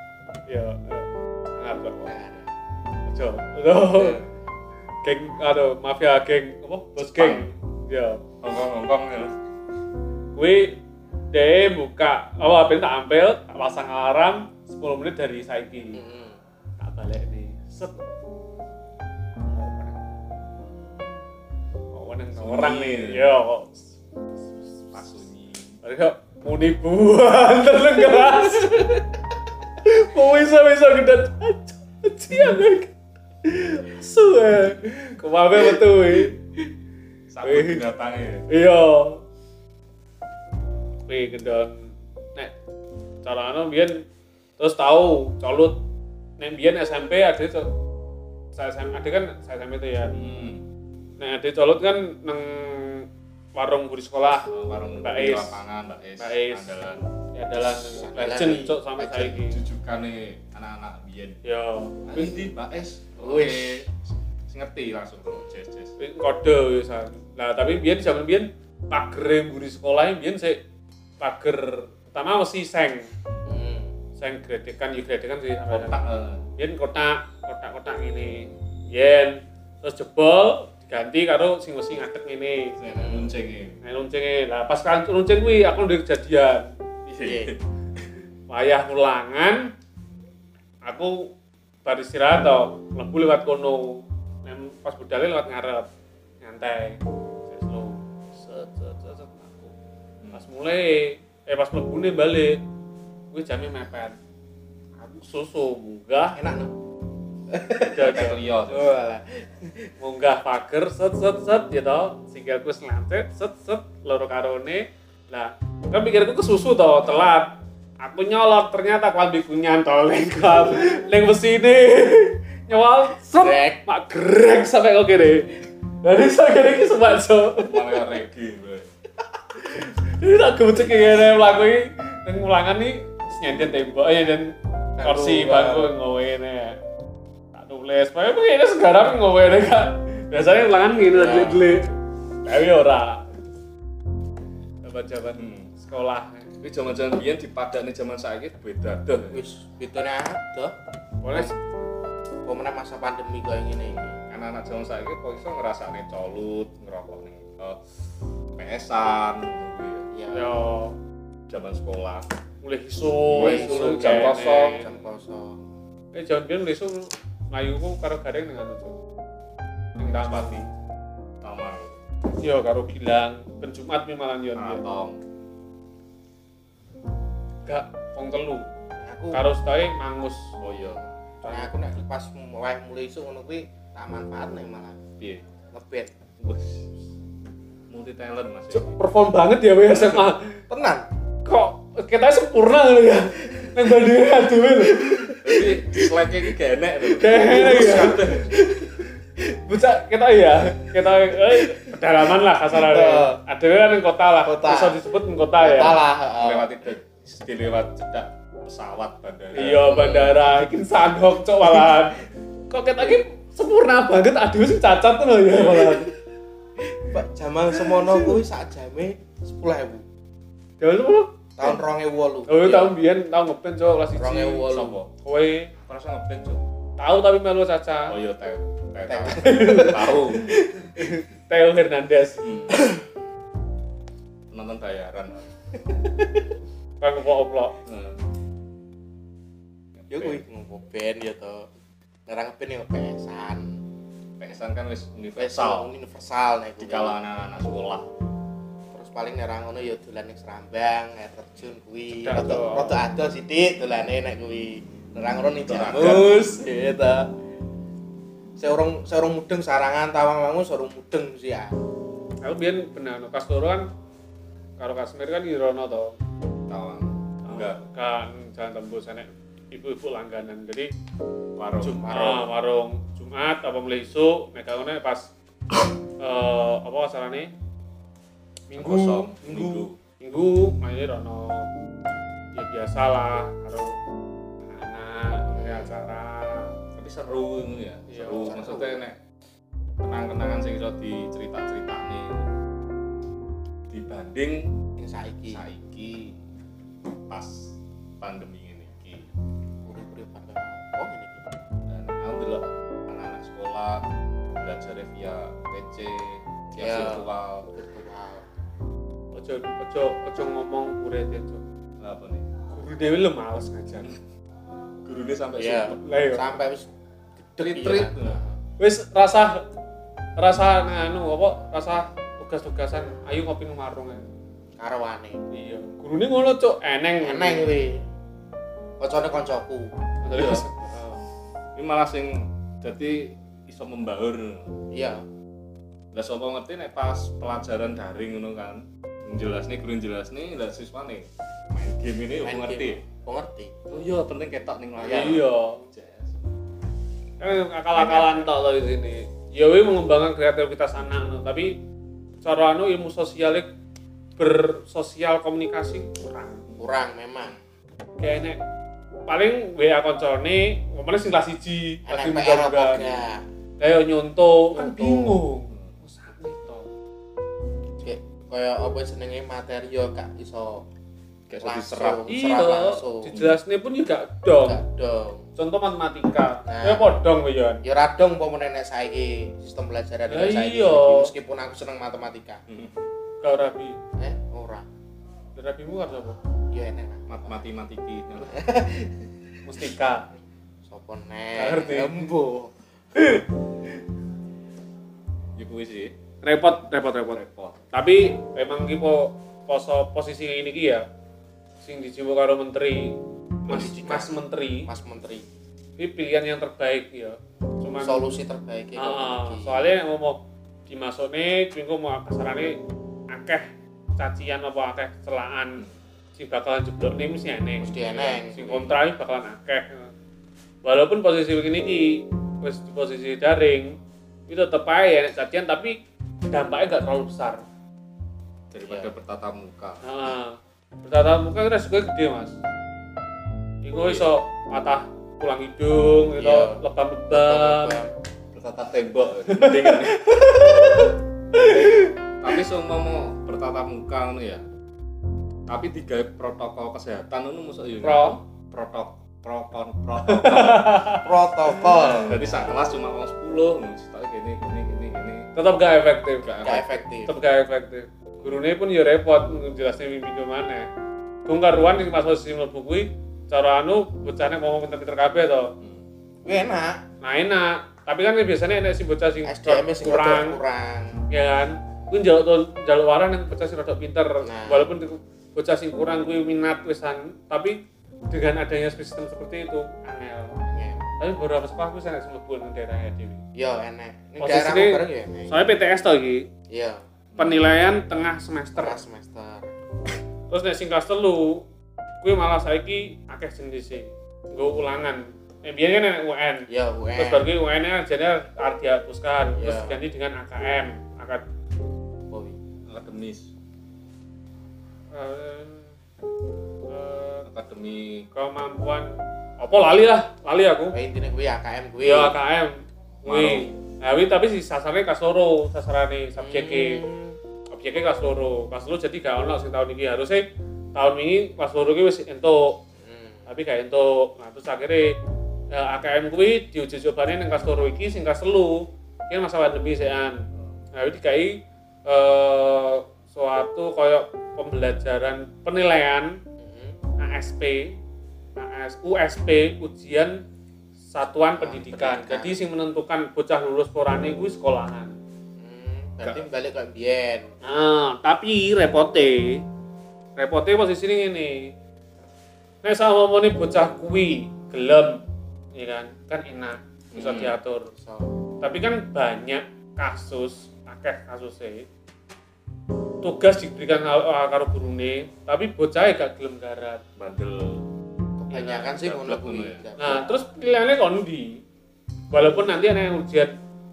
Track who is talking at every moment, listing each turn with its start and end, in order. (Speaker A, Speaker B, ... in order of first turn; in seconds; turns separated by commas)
Speaker A: 0.5-2.2, Speaker B: 2.0-2.5, Speaker A: 3.1-4.2, Speaker B: 3.9-4.2, Speaker A: 5.0-8.2, Speaker C: 7.2-7.5, Speaker C: 8.4-9.4, Speaker A: 10.4-16.0, Speaker B: 15.9-16.4, Speaker A: 16.8-18.0, Speaker A: 19.4-20.0, Speaker A: 21.9-23.9, Speaker C: 22.4-23.3, Speaker C: 24.9-25.8, Speaker A: 25.8-29.0, Speaker A: 29.8-32.9, Speaker A: 33.4-36.4, Speaker C: 37.3-38.5, Speaker A: 37.4-37.8, Speaker A: 38.5-39.2, Speaker A: 41.1-42.5, Speaker A: 43.2-44.0, Speaker A: 44.6-45.8, Speaker A: 46.4-47.7, Speaker A: 48.5-50.2, Speaker C: 50.1-50.6, Speaker A: 51.2-54.5, Speaker C: 54.5-57.1, Speaker A: 55.0-55.6, Speaker A: 56.2-56.7, Speaker A: 57.3-59.6, Speaker B: 57.5-58.9, Speaker C: 59.0-61.4, Speaker A: 61.4-62.4, Speaker C: 62.1-65.9, Speaker B: 63.2-63.9, Speaker A: 66.0-70.6, Speaker A: 71.2-73.1, Speaker B: 73.5-73.9, Speaker A: 74.2-76.0, Speaker C: 75.7-76.5, Speaker A: 76.6-82.8, Speaker C: 82.8-83.8, Speaker B: 82.9-83.3, Speaker A: 83.8-86.7, Speaker C: 87.1-87.6, Speaker B: 87.2-87.5, Speaker A: 88.5-89.7, Speaker A: 90.8-91.3, Speaker A: 91.8-95.9, Speaker A: 96.4-99.7, Speaker C: 100.2-100.5, Speaker A: 100.3-102.6, Speaker A: 103.3-104.2, Speaker A: 105.0-106.4, Speaker B: 106.3-106.7, Speaker B: 107.5-109.9, Speaker A: 107.8-108.4, Speaker C: 108.0-108.9, Speaker A: 110.0-127.7, Speaker B: 123.4-123.8, Speaker C: 127.5-128.9, Speaker A: 129.6-136.8, Speaker B: 135.0-135.9, Speaker A: 137.5-141.9, Speaker B: 141.1-141.6, Speaker A: 142.4-143.3, Speaker A: 144.8-146.5, Speaker C: 145.4-145.7, Speaker C: 146.6-149.4, Speaker B: 149.3-150.8, Speaker A: 151.2-151.6, Speaker B: 152.5-154.2, Speaker C: 154.1-157.8, Speaker C: 158.6-160.1, Speaker B: 160.1-160.6, Speaker A: 160.3-161.0, Speaker C: 161.5-162.3, Speaker A: 162.6-164.9, Speaker C: 163.3-164.8, Speaker B: 163.4-165.6, Speaker A: 166.1-169.0, Speaker A: 170.0-170.7, Speaker C: 170.1-170.6, Speaker C: 171.4-171.9, Speaker A: 172.4-174.8, Speaker C: 174.6-175.2, Speaker A: 177.7-178.7, Speaker B: 179.0-179.4, Speaker A: 179.3-180.6, Speaker C: 180.6-181.1, Speaker A: 181.4-181.8, Speaker B: 181.5-185.0, Speaker C: 185.2-185.4, Speaker B: 185.7-186.1, Speaker C: 186.4-186.9, Speaker C: 187.9-189.0, Speaker A: 188.7-190.6, Speaker B: 190.7-191.1, Speaker A: 191.4-195.4, Speaker B: 194.8-196.2, Speaker C: 195.4-198.6, Speaker A: 197.1-198.3, Speaker B: 197.3-199.2, Speaker A: 199.7-206.0, Speaker B: 201.5-201.9, Speaker B: 202.7-203.4, Speaker B: 204.4-205.0, Speaker B: 205.6-206.7, Speaker C: 206.4-209.9, Speaker A: 209.5-216.1, Speaker B: 209.7-210.7, Speaker B: 211.7-211.9, Speaker C: 215.6-216.0, Speaker B: 217.0-220.0, Speaker A: 217.8-218.3, Speaker A: 220.8-221.3, Speaker B: 221.6-222.9, Speaker A: 222.5-225.7, Speaker B: 224.2-225.0, Speaker C: 224.7-225.1, Speaker C: 225.9-226.6, Speaker A: 227.0-228.2, Speaker C: 228.1-230.6, Speaker B: 229.1-231.1, Speaker A: 229.3-230.2, Speaker A: 230.8-232.5, Speaker C: 232.4-232.9, Speaker B: 232.8-233.0, Speaker C: 234.5-235.5, Speaker A: 237.0-237.8, Speaker C: 237.8-238.2, Speaker C: 240.0-240.4, Speaker B: 240.1-241.7, Speaker B: 242.3-243.8, Speaker C: 244.4-245.9, Speaker B: 245.4-247.2, Speaker C: 246.8-248.1, Speaker B: 248.9-257.3, Speaker A: 252.2-253.0, Speaker C: 255.7-256.5, Speaker B: 258.6-261.8, Speaker A: 262.4-263.9, Speaker A: 264.8-266.1, Speaker C: 266.7-267.8, Speaker A: 267.5-270.9, Speaker C: 271.6-272.3, Speaker A: 271.8-275.3, Speaker B: 272.0-272.4, Speaker A: 276.2-277.5, Speaker A: 278.7-281.7, Speaker C: 278.8-280.0, Speaker A: 282.6-283.9, Speaker A: 284.7-286.7, Speaker B: 285.6-285.9, Speaker C: 287.0-289.2, Speaker A: 288.1-288.8, Speaker B: 288.4-288.9, Speaker C: 290.0-292.4, Speaker C: 293.9-294.7, Speaker B: 295.0-295.6, Speaker C: 295.5-296.4, Speaker C: 297.3-299.3, Speaker B: 299.9-301.4, Speaker C: 301.9-304.1, Speaker C: 304.6-307.7, Speaker B: 306.8-308.5, Speaker A: 309.4-311.6, Speaker C: 312.0-312.5, Speaker A: 312.7-314.1, Speaker C: 315.0-316.0, Speaker B: 315.6-316.9, Speaker A: 316.0-316.4, Speaker B: 317.5-318.6, Speaker C: 317.6-318.4, Speaker A: 318.8-319.6, Speaker A: 320.4-324.2, Speaker B: 324.8-325.4, Speaker A: 325.5-327.7, Speaker B: 327.2-328.0, Speaker B: 329.0-329.9, Speaker A: 330.2-331.2, Speaker C: 330.3-330.6, Speaker C: 331.8-334.7, Speaker B: 334.9-335.2, Speaker C: 336.1-343.0, Speaker B: 342.4-343.7, Speaker C: 343.9-346.4, Speaker B: 345.0-345.4, Speaker A: 345.0-345.9, Speaker A: 347.4-351.8, Speaker B: 347.9-348.5, Speaker A: 352.4-353.7, Speaker A: 354.4-356.6, Speaker B: 356.7-357.6, Speaker A: 358.2-358.6, Speaker A: 359.3-363.0, Speaker B: 362.1-363.4, Speaker C: 363.0-363.2, Speaker A: 363.8-366.9, Speaker B: 364.7-365.4, Speaker B: 368.0-370.9, Speaker C: 371.5-372.3, Speaker B: 371.6-373.5, Speaker A: 372.3-374.8, Speaker B: 374.6-375.5, Speaker A: 375.6-377.8, Speaker B: 376.7-377.1, Speaker B: 377.8-382.6, Speaker A: 380.3-381.3, Speaker C: 382.7-383.0, Speaker A: 383.4-384.0, Speaker B: 384.2-384.9, Speaker A: 385.6-386.4, Speaker B: 386.7-387.6, Speaker C: 387.3-388.6, Speaker B: 388.4-389.2, Speaker A: 389.6-390.3, Speaker B: 390.9-393.5, Speaker A: 391.6-392.3, Speaker C: 395.6-396.2, Speaker A: 396.4-397.4, Speaker C: 397.3-397.8, Speaker A: 397.9-401.1, Speaker A: 401.8-404.9, Speaker B: 403.7-404.3, Speaker B: 404.9-405.5, Speaker A: 406.0-408.3, Speaker B: 408.0-410.0, Speaker A: 409.0-415.8, Speaker A: 416.4-420.1, Speaker B: 417.8-419.0, Speaker A: 420.8-424.0, Speaker A: 424.5-426.0, Speaker A: 426.5-427.6, Speaker C: 428.7-430.1, Speaker B: 428.9-429.1, Speaker A: 430.0-432.6, Speaker A: 433.8-438.0, Speaker C: 434.0-434.3, Speaker B: 436.4-438.1, Speaker C: 438.5-440.6, Speaker A: 439.5-441.1, Speaker B: 440.3-440.9, Speaker C: 442.4-444.6, Speaker C: 445.7-451.1, Speaker A: 448.0-448.4, Speaker A: 450.2-452.2, Speaker B: 451.2-452.8, Speaker C: 451.8-455.5, Speaker A: 455.6-456.5, Speaker C: 456.4-457.0, Speaker B: 456.6-457.3, Speaker A: 457.3-460.9, Speaker A: 461.5-465.7, Speaker B: 466.4-467.1, Speaker A: 467.2-470.6, Speaker B: 469.4-471.2, Speaker A: 471.3-480.6, Speaker B: 474.4-474.9, Speaker B: 480.6-481.1, Speaker A: 481.2-483.4, Speaker B: 483.6-485.6, Speaker A: 484.4-486.5, Speaker B: 486.7-487.1, Speaker C: 487.3-487.7, Speaker A: 487.4-489.0, Speaker B: 488.8-489.7, Speaker A: 490.5-491.6, Speaker A: 492.2-501.4, Speaker B: 496.7-497.5, Speaker B: 499.6-500.0, Speaker B: 502.3-502.6, Speaker C: 502.9-503.5, Speaker A: 505.1-505.9, Speaker A: 506.9-507.5, Speaker C: 507.4-508.3, Speaker A: 508.3-511.0, Speaker B: 510.9-512.4, Speaker A: 512.0-517.0, Speaker C: 513.3-513.8, Speaker B: 516.4-517.4, Speaker A: 517.7-522.8, Speaker B: 523.0-523.5, Speaker A: 523.5-525.1, Speaker A: 525.7-536.4, Speaker B: 536.6-537.0, Speaker A: 537.2-538.0, Speaker A: 538.6-540.4, Speaker A: 541.1-545.2, Speaker B: 541.6-542.6, Speaker B: 545.6-547.5, Speaker A: 547.6-549.6, Speaker A: 550.4-551.7, Speaker A: 552.8-555.2, Speaker A: 555.7-557.9, Speaker C: 557.1-557.6, Speaker B: 557.9-558.3, Speaker A: 558.6-561.9, Speaker A: 563.2-567.0, Speaker C: 567.2-567.9, Speaker B: 568.4-570.4, Speaker A: 568.5-568.9, Speaker C: 569.0-569.8, Speaker A: 570.0-571.6, Speaker A: 572.3-573.5